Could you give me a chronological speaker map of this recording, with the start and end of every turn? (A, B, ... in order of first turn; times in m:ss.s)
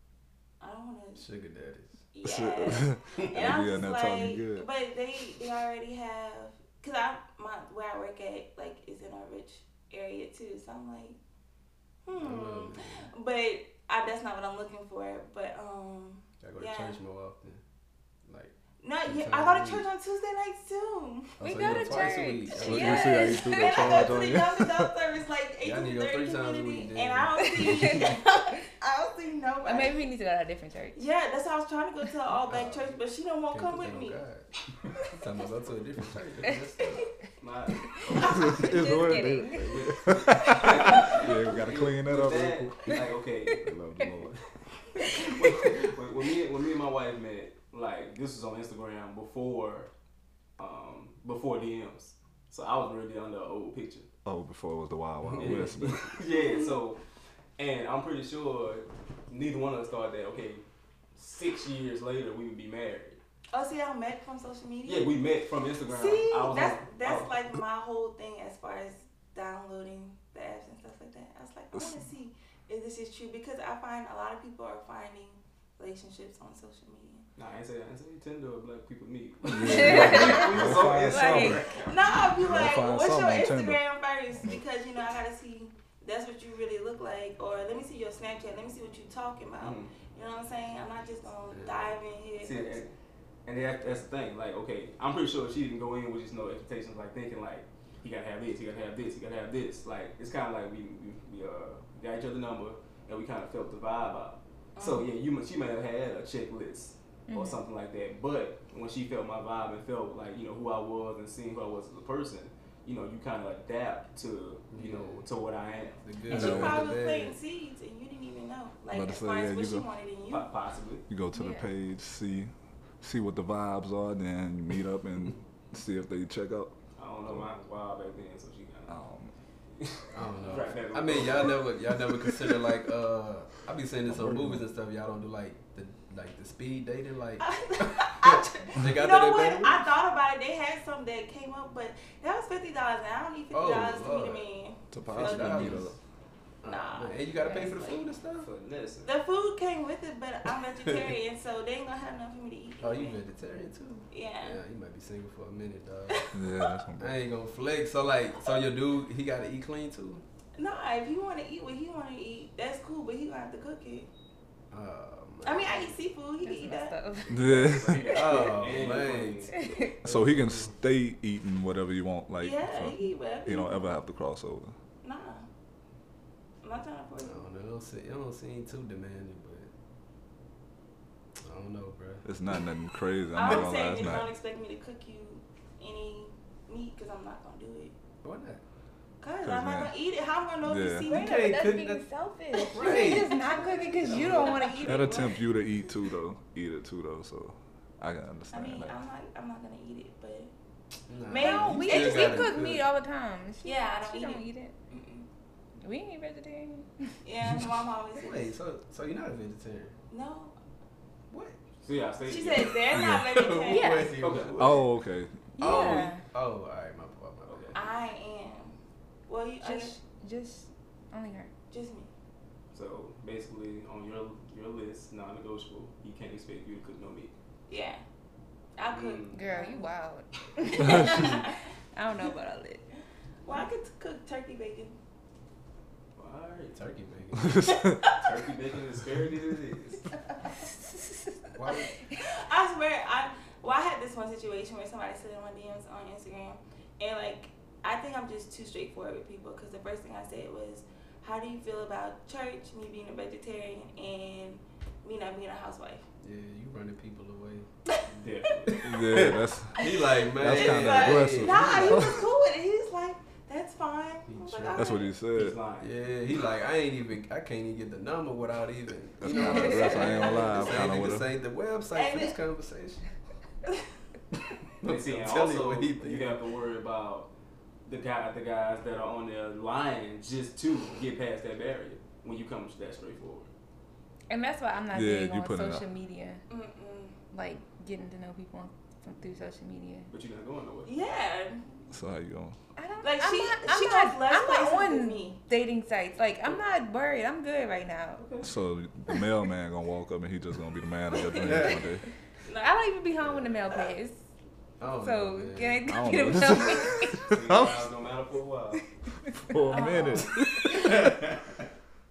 0:00.6-0:01.3 A
0:01.2-0:02.0 B
0:02.1-0:11.2 A
0:02.2-0:04.7 C
0:12.0-0:17.0 A
0:12.2-0:13.1 B
0:16.4-0:17.6 B
0:18.2-0:18.5 B
0:18.8-0:22.0 A
0:19.1-0:19.9 B
0:21.4-0:23.3 B
0:21.4-0:24.1 D
0:22.6-0:24.9 C
0:23.1-0:30.1 A
0:25.6-0:27.9 B
0:27.4-0:28.2 D
0:29.6-0:31.1 D
0:31.0-0:34.2 A
0:32.5-0:33.0 B
0:33.5-0:34.5 B
0:35.1-0:37.0 B
0:37.4-0:38.5 E
0:38.1-0:43.0 C
0:38.2-0:39.9 D
0:38.2-0:38.6 A
0:39.8-0:43.7 E
0:43.6-0:44.4 C
0:45.0-0:45.6 D
0:45.1-0:49.9 E
0:50.6-0:54.1 E
0:54.2-0:56.2 C
0:55.3-0:57.0 E
0:56.3-0:56.8 A
0:57.6-1:00.6 E
1:01.2-1:03.2 E
1:03.5-1:05.1 A
1:04.9-1:07.3 E
1:05.9-1:17.3 A
1:17.4-1:22.2 E
1:19.5-1:21.6 C
1:19.6-1:21.7 D
1:21.8-1:32.8 A
1:22.3-1:23.8 C
1:29.6-1:29.9 E
1:31.5-1:31.9 B
1:32.4-1:32.9 E
1:33.5-1:56.0 E
1:44.8-1:45.1 A
1:47.3-1:47.6 D
1:54.7-1:55.2 B
1:56.0-1:57.4 B
1:56.3-2:00.5 A
1:56.3-1:56.9 C
1:58.9-1:59.9 C
2:00.3-2:01.1 E
2:01.1-2:06.8 C
2:01.3-2:01.7 D
2:07.0-2:09.0 E
2:08.9-2:09.3 C
2:09.8-2:11.7 E
2:10.2-2:19.9 B
2:14.1-2:14.6 C
2:17.4-2:25.9 A
2:23.5-2:24.4 B
2:24.9-2:26.0 C
2:25.1-2:26.0 B
2:26.6-2:28.5 B
2:26.7-2:28.0 A
2:28.4-2:29.1 E
2:29.0-2:33.2 A
2:30.8-2:31.1 B
2:32.8-2:36.2 B
2:34.1-2:34.6 A
2:36.1-2:36.8 A
2:36.3-2:37.1 C
2:37.0-2:40.2 B
2:40.6-2:44.1 A
2:44.7-2:46.0 B
2:45.4-2:47.0 A
2:46.4-2:48.1 D
2:47.3-2:48.1 C
2:47.3-2:49.7 E
2:48.1-2:50.7 B
2:49.5-2:50.0 D
2:50.0-2:54.8 C
2:52.4-2:53.9 A
2:55.0-2:55.5 A
2:56.6-2:57.4 A
2:57.2-2:59.7 B
3:01.4-3:02.2 B
3:02.2-3:04.3 C
3:03.3-3:07.9 A
3:03.5-3:04.2 B
3:08.2-3:08.6 B
3:09.2-3:11.7 A
3:09.4-3:09.9 C
3:10.6-3:11.1 C
3:11.1-3:15.3 D
3:11.1-3:12.0 B
3:12.5-3:15.4 A
3:12.7-3:14.6 B
3:14.1-3:14.4 E
3:14.8-3:19.0 C
3:18.5-3:20.5 A
3:21.1-3:22.9 B
3:21.3-3:22.6 A
3:21.3-3:24.7 D
3:23.6-3:25.3 A
3:25.8-3:27.2 D
3:27.2-3:28.5 A
3:28.2-3:30.0 B
3:30.1-3:30.6 A
3:31.3-3:31.6 B
3:31.8-3:32.8 E
3:32.2-3:34.1 A
3:32.6-3:34.9 B
3:32.9-3:33.3 C
3:33.7-3:34.2 D
3:34.2-3:34.7 E
3:34.6-3:35.8 C
3:35.6-3:36.2 D
3:35.6-3:37.8 B
3:37.5-3:37.8 E
3:37.7-3:40.0 A
3:39.6-3:41.5 D
3:41.7-3:42.1 A
3:42.7-3:47.3 E
3:47.7-3:48.0 A
3:48.8-3:49.9 A
3:48.9-3:49.4 E
3:49.3-3:52.8 D
3:50.6-3:51.6 A
3:53.4-3:55.0 A
3:56.2-3:56.8 E
3:56.7-3:57.6 B
3:57.4-3:58.1 C
3:57.7-3:58.2 A
3:58.1-4:00.1 E
4:01.6-4:01.9 B
4:02.1-4:16.0 A
4:16.2-4:17.7 B
4:18.1-4:19.3 E
4:18.8-4:22.2 C
4:18.8-4:22.2 B
4:19.8-4:25.2 A
4:24.3-4:24.9 B
4:24.8-4:25.6 C
4:25.3-4:25.9 E
4:25.8-4:33.1 B
4:29.2-4:31.3 C
4:29.3-4:30.2 D
4:29.7-4:30.6 A
4:31.9-4:32.4 A
4:34.8-4:36.4 B
4:34.8-4:37.3 E
4:37.9-4:43.5 E
4:44.3-4:46.4 D
4:44.9-4:45.8 C
4:46.5-4:47.2 A
4:47.3-4:50.1 D
4:50.1-4:50.9 E
4:50.9-4:51.8 A
4:51.9-4:52.6 C
4:52.8-4:58.3 D
4:53.0-4:55.4 A
4:58.2-4:58.5 E
4:58.4-5:02.1 C
5:01.4-5:01.8 B
5:01.4-5:01.7 D
5:02.5-5:02.8 A
5:02.5-5:04.2 D
5:03.2-5:03.6 B
5:04.8-5:05.9 B
5:05.0-5:07.3 D
5:05.9-5:07.9 C
5:07.2-5:08.8 E
5:09.3-5:10.2 D
5:09.4-5:11.3 C
5:09.7-5:10.7 A
5:10.8-5:11.2 E